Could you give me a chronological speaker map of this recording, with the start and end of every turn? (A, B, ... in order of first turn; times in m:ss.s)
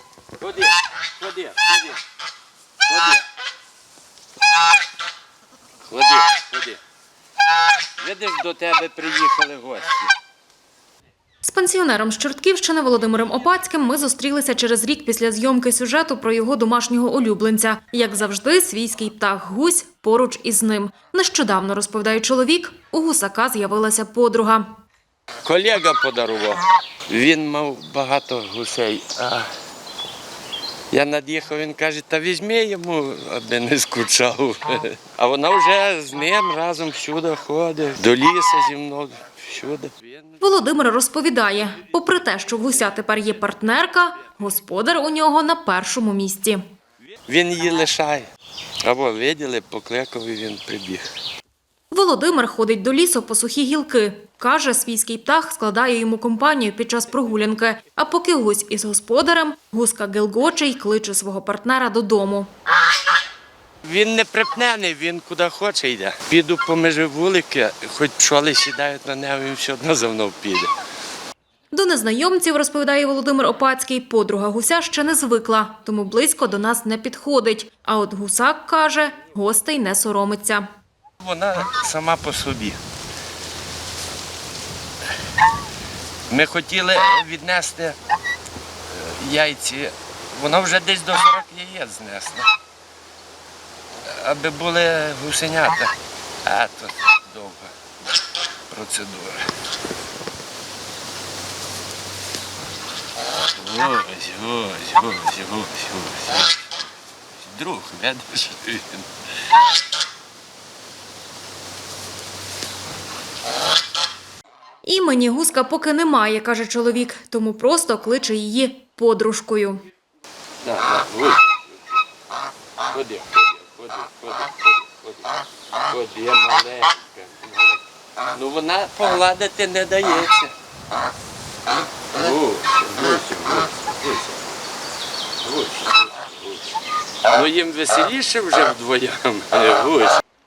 0:00.4-0:02.0 A
0:02.8-0:03.2 A
0:05.9-0:06.8 A
0:08.0-0:10.1 A
0:11.4-0:24.8 B
0:25.4-0:29.5 A
0:30.9-0:40.4 A
0:40.4-0:46.6 B
0:47.1-0:48.3 A
0:48.8-0:51.1 A
0:51.9-1:02.5 B
1:03.8-1:10.7 A
1:11.7-1:20.7 B
1:21.2-1:22.8 A
1:26.3-1:28.0 A
1:28.9-1:32.5 A
1:34.1-1:35.9 A
1:36.4-1:37.7 A
1:38.7-1:39.5 A
1:43.6-1:46.6 A
1:47.4-1:49.0 A
1:54.8-1:59.8 B
2:00.6-2:01.8 A
2:02.9-2:07.8 A
2:08.3-2:10.5 A
2:12.1-2:14.5 A
2:15.4-2:16.7 A
2:17.3-2:20.2 A